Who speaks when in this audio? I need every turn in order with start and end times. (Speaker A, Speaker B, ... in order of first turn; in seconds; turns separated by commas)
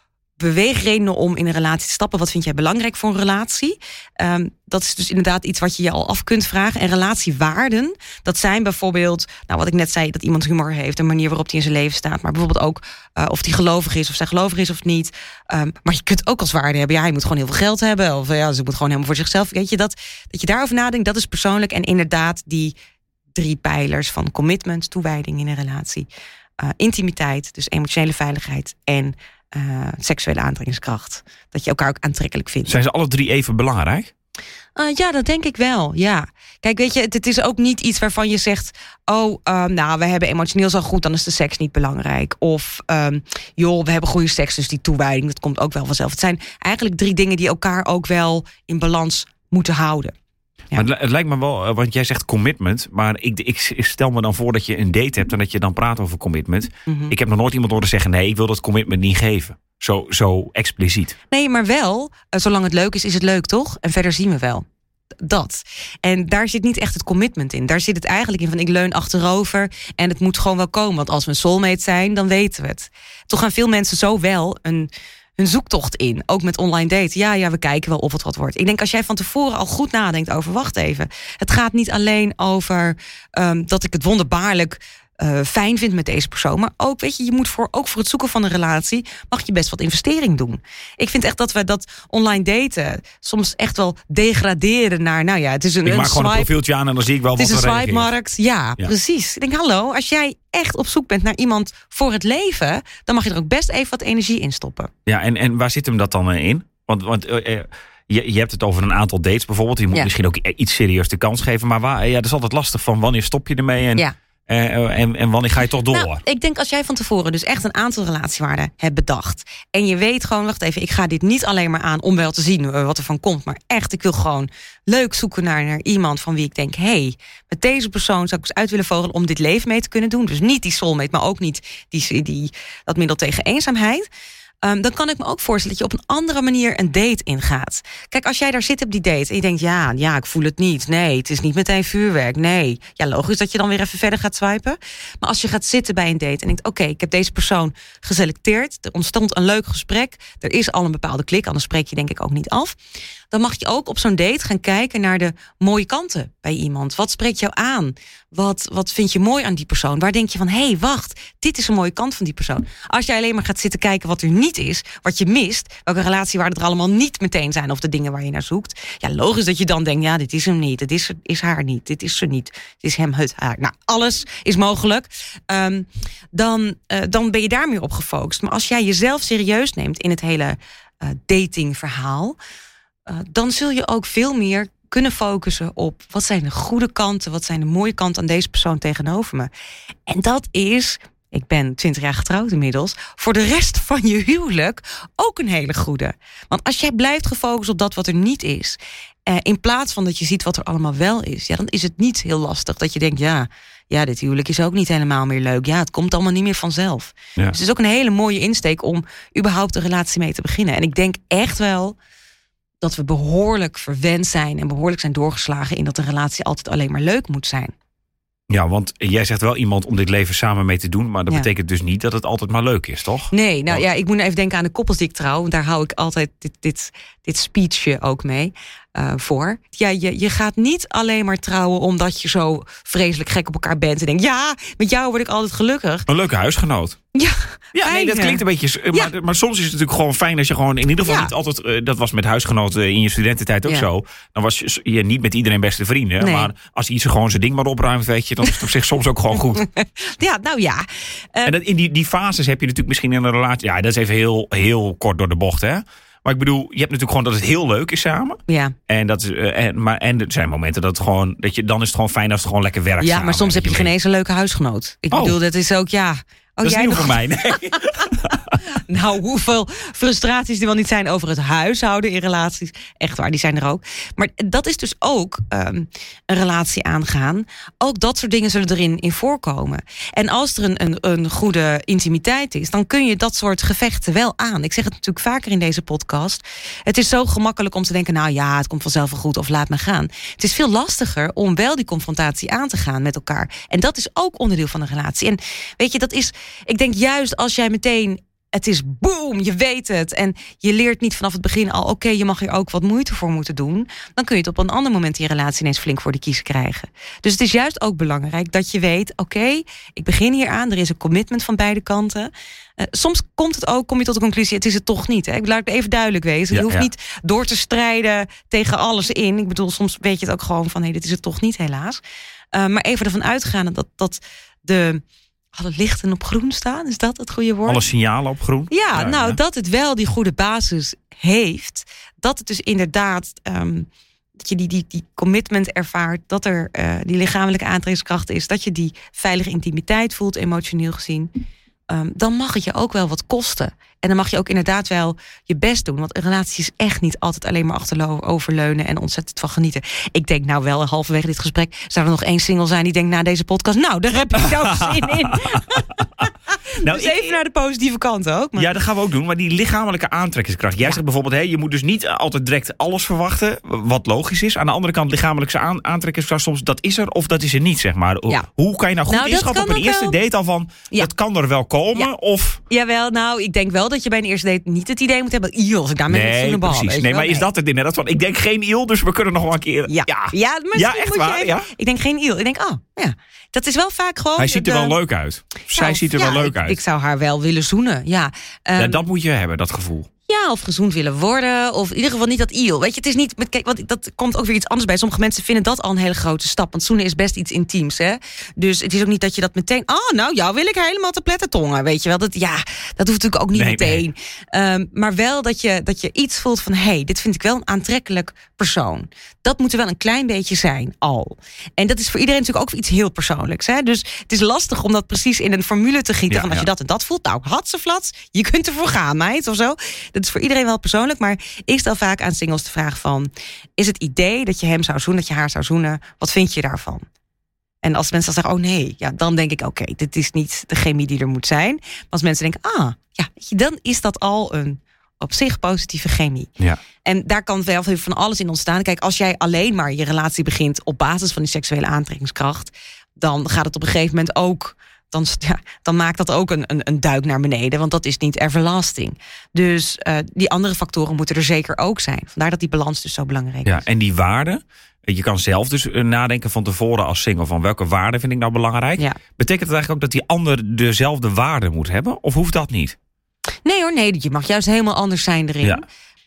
Speaker A: 0.4-22.7, Speaker A: 23.3-26.1, Speaker A: 26.6-32.7, Speaker B: 32.6-34.1, Speaker A: 34.8-50.1, Speaker B: 50.7-61.1, Speaker A: 56.9-57.1, Speaker A: 61.3-64.6, Speaker A: 65.2-96.5, Speaker B: 95.8-98.1, Speaker A: 97.3-104.9, Speaker B: 105.0-116.2, Speaker A: 115.9-134.1, Speaker A: 134.6-152.8, Speaker A: 153.3-182.4, Speaker A: 183.1-189.5, Speaker A: 190.1-212.0, Speaker A: 212.8-217.7, Speaker B: 218.5-223.8, Speaker A: 223.3-236.1, Speaker B: 236.1-237.0, Speaker A: 237.1-239.1, Speaker B: 237.7-249.6, Speaker A: 241.0-241.3, Speaker A: 246.2-246.5, Speaker A: 249.5-251.5, Speaker B: 251.4-263.9, Speaker A: 258.5-258.7, Speaker A: 263.0-267.2, Speaker B: 265.1-265.4, Speaker B: 266.6-268.6, Speaker A: 268.6-322.0, Speaker B: 316.5-316.9, Speaker A: 322.5-325.0, Speaker A: 325.5-327.8, Speaker B: 327.7-329.4, Speaker A: 328.7-333.9, Speaker A: 334.4-341.3, Speaker A: 341.9-358.7, Speaker B: 354.4-356.2, Speaker B: 356.8-357.4, Speaker B: 358.6-372.6, Speaker A: 369.1-370.1, Speaker A: 372.7-377.5, Speaker B: 376.1-381.7, Speaker A: 379.9-384.9, Speaker B: 384.4-386.8, Speaker A: 385.7-389.0, Speaker B: 388.8-390.1, Speaker A: 390.3-427.0, Speaker B: 403.5-404.0, Speaker B: 416.3-416.7, Speaker A: 427.8-436.5, Speaker A: 437.0-453.8, Speaker B: 453.6-462.9, Speaker A: 463.6-465.8